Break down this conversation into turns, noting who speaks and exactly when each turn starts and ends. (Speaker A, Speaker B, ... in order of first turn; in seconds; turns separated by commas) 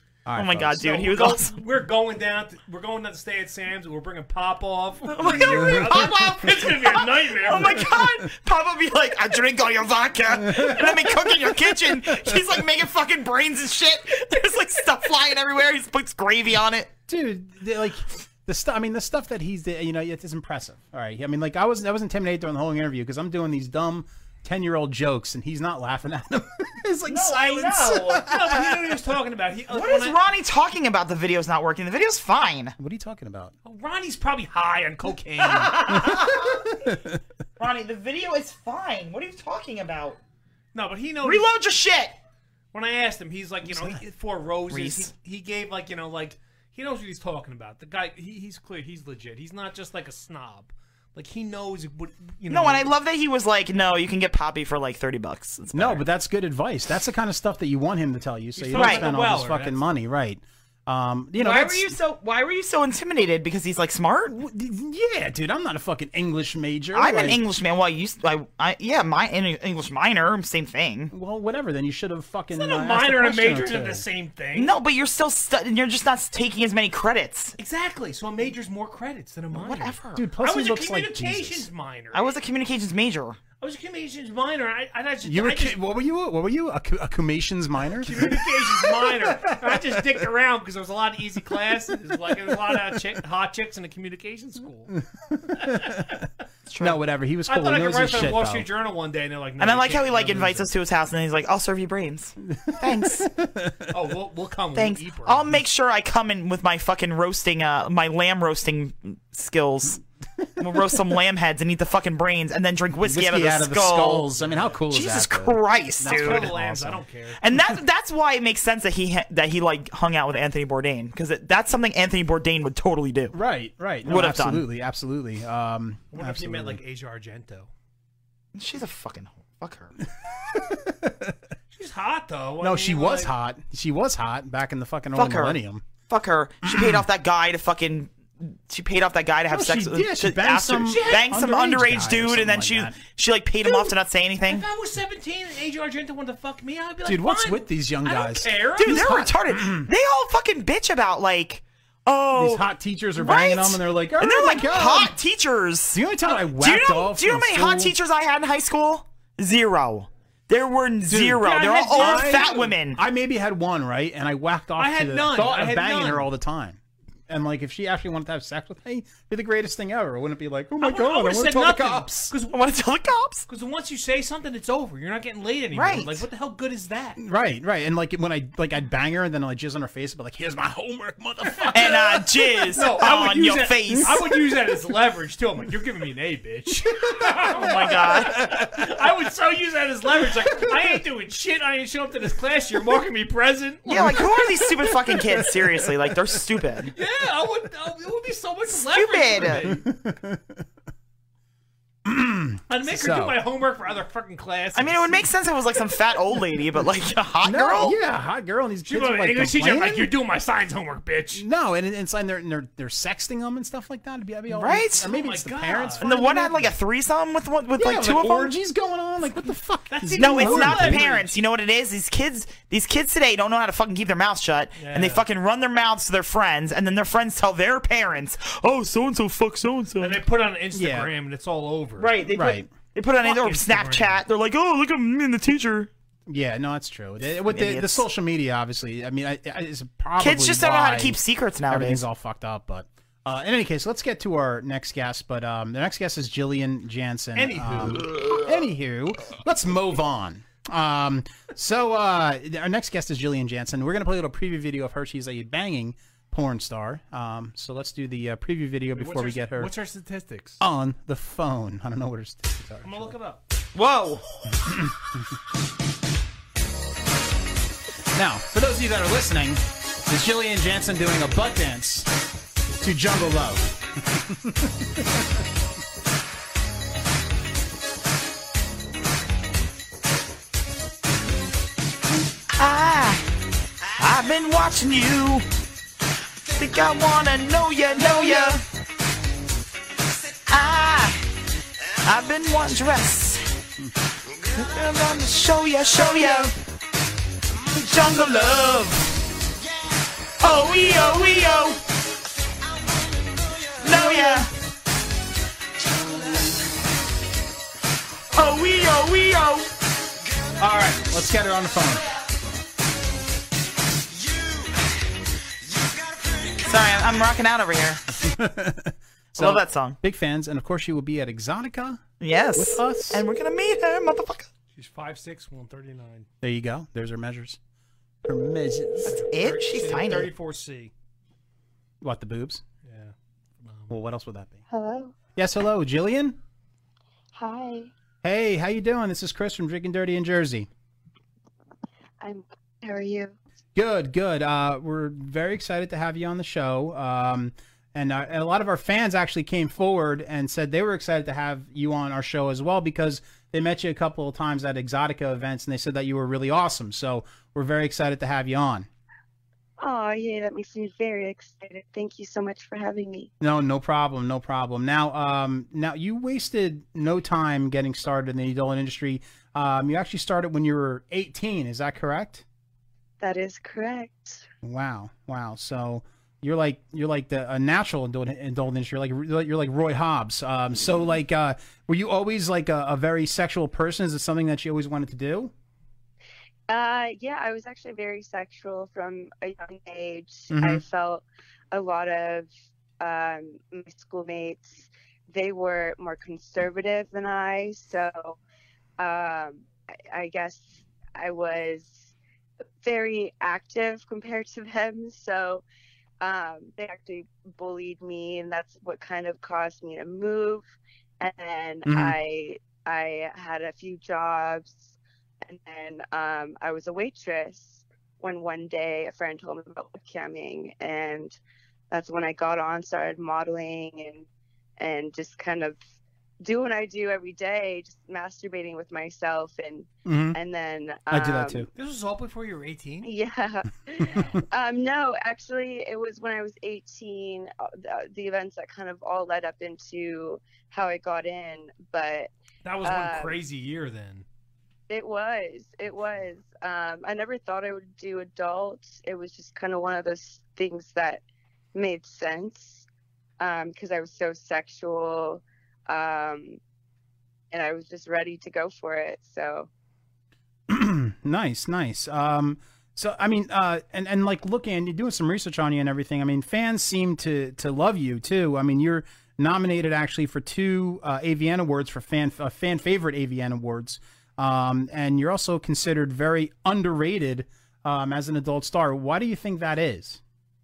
Speaker A: 0.2-0.9, Speaker B: 0.3-1.6, Speaker C: 0.8-7.9, Speaker B: 5.1-16.9, Speaker A: 5.3-6.1, Speaker A: 7.8-8.1, Speaker A: 10.4-12.4, Speaker A: 17.1-28.6, Speaker B: 27.1-28.3, Speaker C: 28.2-30.2, Speaker B: 29.7-32.7, Speaker A: 32.8-33.5, Speaker C: 33.6-36.0, Speaker B: 35.4-36.6, Speaker A: 36.0-37.2, Speaker B: 37.6-40.2, Speaker C: 40.7-41.5, Speaker B: 41.2-42.1, Speaker C: 42.7-52.9, Speaker A: 43.6-44.0, Speaker B: 44.7-45.1, Speaker B: 52.5-56.0, Speaker A: 55.7-61.9, Speaker C: 58.5-59.8, Speaker B: 58.7-59.1, Speaker B: 61.4-64.3, Speaker A: 64.3-67.4, Speaker B: 66.9-71.1, Speaker A: 71.1-74.0, Speaker C: 72.5-74.7, Speaker B: 74.5-77.5, Speaker C: 77.6-82.3, Speaker B: 79.5-80.2, Speaker A: 80.1-81.7, Speaker B: 82.1-83.4, Speaker C: 83.6-85.8, Speaker A: 85.2-90.0, Speaker C: 88.0-94.9, Speaker A: 95.3-96.2, Speaker C: 95.6-96.1, Speaker B: 96.7-97.0, Speaker A: 96.8-98.7, Speaker C: 97.5-100.7, Speaker B: 99.6-103.3, Speaker A: 102.4-103.9, Speaker C: 103.9-105.5, Speaker B: 104.7-110.0, Speaker B: 110.6-114.3, Speaker A: 113.0-117.0, Speaker C: 114.4-114.7, Speaker B: 114.9-116.5, Speaker C: 116.0-117.4, Speaker B: 117.4-123.3, Speaker A: 123.3-126.8, Speaker B: 124.0-124.6, Speaker C: 126.1-127.7, Speaker B: 128.5-129.9, Speaker A: 130.5-131.4, Speaker C: 131.7-133.3, Speaker A: 132.6-135.8, Speaker B: 135.1-144.6, Speaker A: 136.6-137.1, Speaker A: 139.5-142.9, Speaker C: 140.9-141.3, Speaker C: 144.5-149.3, Speaker A: 147.0-149.9, Speaker B: 148.8-152.6, Speaker A: 152.3-155.1, Speaker B: 153.2-163.0, Speaker A: 155.9-157.9, Speaker A: 161.1-172.3, Speaker C: 161.4-162.7, Speaker C: 164.8-166.3, Speaker C: 170.8-172.6, Speaker B: 172.5-173.4, Speaker C: 173.5-177.2, Speaker B: 175.7-176.2, Speaker A: 177.2-182.0, Speaker C: 181.5-182.0, Speaker B: 181.7-184.2, Speaker C: 182.7-194.4, Speaker A: 183.9-184.3, Speaker B: 187.5-188.4, Speaker A: 188.3-188.7, Speaker B: 193.8-196.9, Speaker C: 196.9-199.8, Speaker B: 198.7-199.7, Speaker A: 199.4-200.6, Speaker A: 202.0-203.4, Speaker C: 202.7-205.2, Speaker B: 204.7-208.0, Speaker A: 207.4-210.1, Speaker C: 208.8-211.4, Speaker A: 211.3-216.7, Speaker B: 214.5-215.1, Speaker C: 215.0-216.7, Speaker B: 216.0-218.5, Speaker A: 217.8-221.2, Speaker C: 219.9-221.3, Speaker B: 220.2-230.2, Speaker C: 224.8-225.2, Speaker C: 230.0-232.2, Speaker A: 230.7-231.1, Speaker B: 232.0-235.9, Speaker A: 232.3-232.7, Speaker C: 233.2-234.2, Speaker A: 236.3-259.7, Speaker B: 237.4-238.1, Speaker B: 240.2-242.0, Speaker C: 247.3-248.0, Speaker C: 258.9-260.6, Speaker A: 260.6-263.1, Speaker C: 262.8-263.4, Speaker B: 263.7-264.2, Speaker A: 264.6-264.9, Speaker A: 268.1-272.1, Speaker A: 272.8-275.2, Speaker B: 282.5-283.2, Speaker B: 284.0-285.4, Speaker B: 286.5-288.6, Speaker B: 290.5-291.3, Speaker B: 292.0-293.4, Speaker B: 294.5-296.5, Speaker B: 297.7-299.0, Speaker B: 300.4-301.8, Speaker B: 303.8-304.5, Speaker A: 303.9-304.4, Speaker B: 308.3-309.7, Speaker A: 310.6-312.0, Speaker B: 316.6-318.0, Speaker A: 318.2-322.0, Speaker B: 319.3-320.0, Speaker B: 322.2-324.5, Speaker A: 322.5-323.2, Speaker C: 324.7-326.3, Speaker A: 326.4-327.6, Speaker A: 328.2-329.2, Speaker C: 329.1-330.9, Speaker B: 329.3-330.3, Speaker A: 332.0-332.6, Speaker C: 332.8-333.9, Speaker A: 333.9-334.6, Speaker D: 334.7-335.1, Speaker A: 335.4-336.4, Speaker D: 337.3-337.9, Speaker A: 338.2-340.7, Speaker D: 342.2-343.3, Speaker A: 343.7-358.9, Speaker D: 359.8-363.3, Speaker A: 363.4-372.4, Speaker D: 373.2-374.5, Speaker A: 374.6-385.5, Speaker D: 386.7-398.4, Speaker A: 390.5-390.8, Speaker D: 399.0-402.1, Speaker D: 402.8-405.6, Speaker D: 406.2-421.4, Speaker A: 411.9-412.2, Speaker D: 421.9-424.2, Speaker D: 424.8-425.8, Speaker D: 426.4-431.7, Speaker A: 430.0-430.4, Speaker A: 431.1-431.7, Speaker C: 431.7-433.1, Speaker D: 433.0-442.3, Speaker C: 442.6-444.2, Speaker D: 442.8-443.4, Speaker D: 444.9-451.2, Speaker D: 451.7-452.9, Speaker D: 453.4-456.6, Speaker D: 457.5-459.7, Speaker A: 460.7-480.2